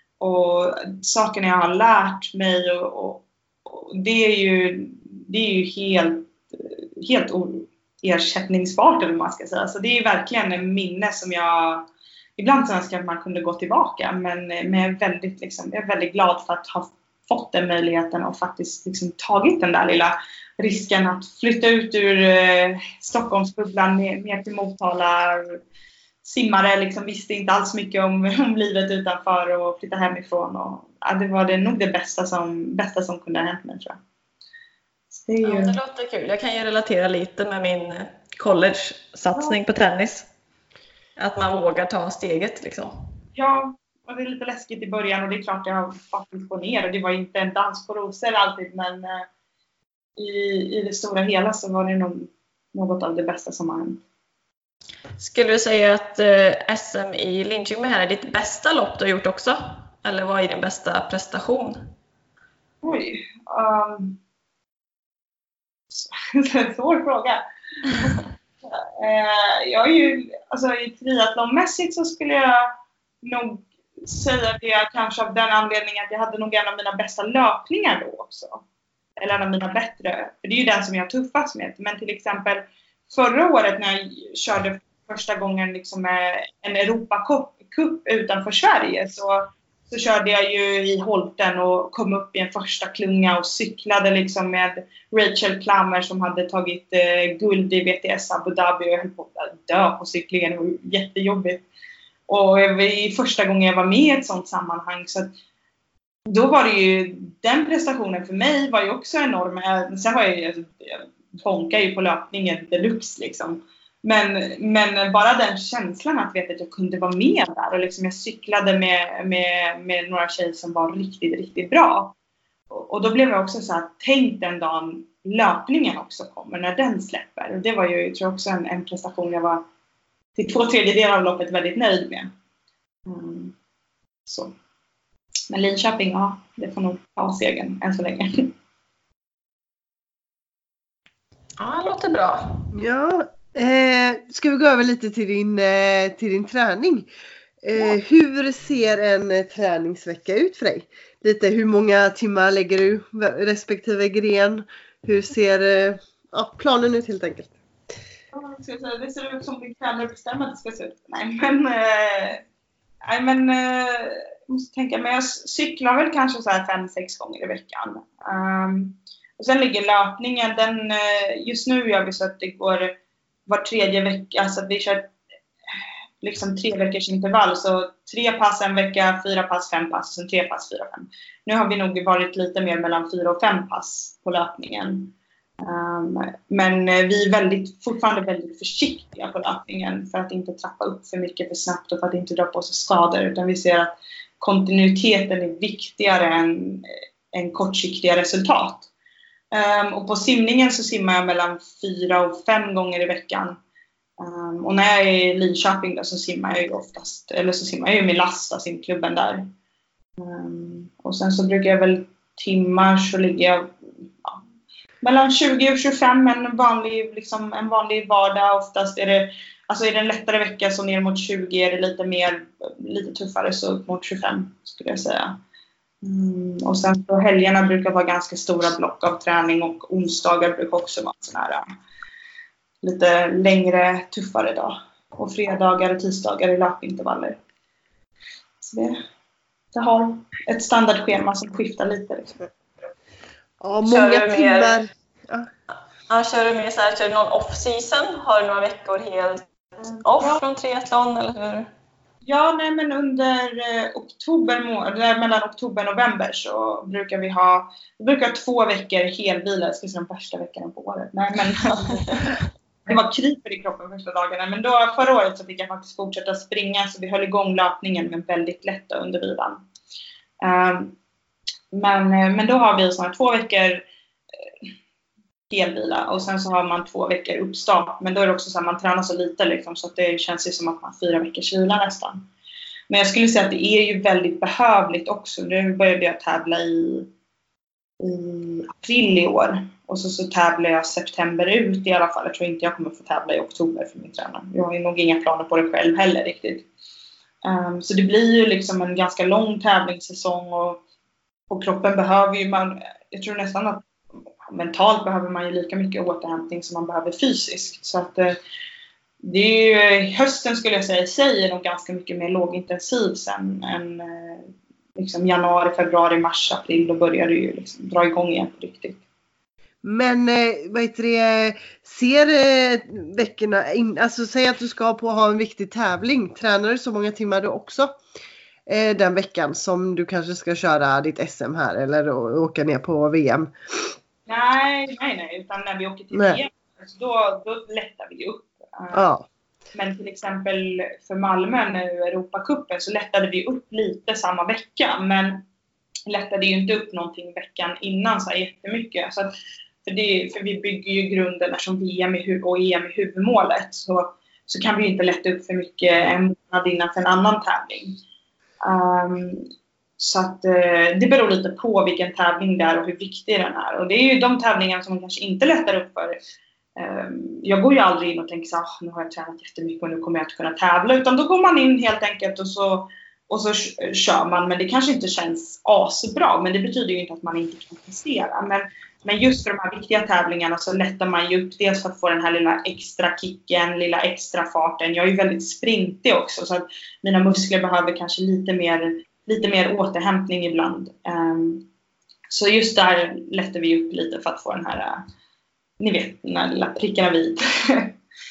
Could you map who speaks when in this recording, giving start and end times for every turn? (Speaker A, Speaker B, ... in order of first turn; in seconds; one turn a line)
Speaker A: 0.2-25.6
Speaker A: 26.2-34.0
Speaker A: 35.1-35.8
Speaker B: 35.4-40.3
Speaker B: 41.2-42.9
Speaker A: 43.4-49.3
Speaker A: 50.2-54.0
Speaker B: 55.2-61.8
Speaker A: 62.8-64.2
Speaker A: 65.9-78.6
Speaker A: 79.2-101.7
Speaker A: 102.3-105.3
Speaker A: 106.3-122.1
Speaker A: 122.7-129.6
Speaker A: 130.4-132.3
Speaker A: 133.1-133.6
Speaker A: 134.3-134.5
Speaker A: 135.5-138.5
Speaker B: 141.6-142.7
Speaker C: 142.7-147.1
Speaker C: 147.6-157.6
Speaker A: 158.3-162.4
Speaker A: 163.0-175.1
Speaker A: 176.2-198.9
Speaker A: 199.5-203.6
Speaker A: 204.2-209.5
Speaker A: 210.2-214.4
Speaker A: 215.0-225.4
Speaker A: 226.0-231.6
Speaker A: 232.8-237.4
Speaker A: 238.6-239.0
Speaker A: 239.7-242.4
Speaker C: 243.6-245.5
Speaker B: 243.9-244.8
Speaker B: 246.1-249.4
Speaker A: 250.0-250.4
Speaker B: 250.0-251.7
Speaker A: 252.2-269.6
Speaker B: 261.8-262.4
Speaker A: 270.4-271.0
Speaker A: 271.7-273.9
Speaker A: 275.5-282.3
Speaker A: 282.9-287.1
Speaker A: 288.0-296.7
Speaker A: 297.4-300.8
Speaker A: 301.5-303.9
Speaker A: 304.5-308.4
Speaker A: 309.2-319.0
Speaker C: 319.8-328.0
Speaker C: 328.7-333.9
Speaker A: 334.3-339.0
Speaker C: 336.1-336.4
Speaker C: 338.9-339.3
Speaker A: 339.7-345.4
Speaker A: 346.1-349.3
Speaker A: 349.9-358.0
Speaker A: 358.6-359.4
Speaker A: 360.0-366.2
Speaker A: 366.8-391.7
Speaker A: 392.3-395.0
Speaker A: 395.8-398.0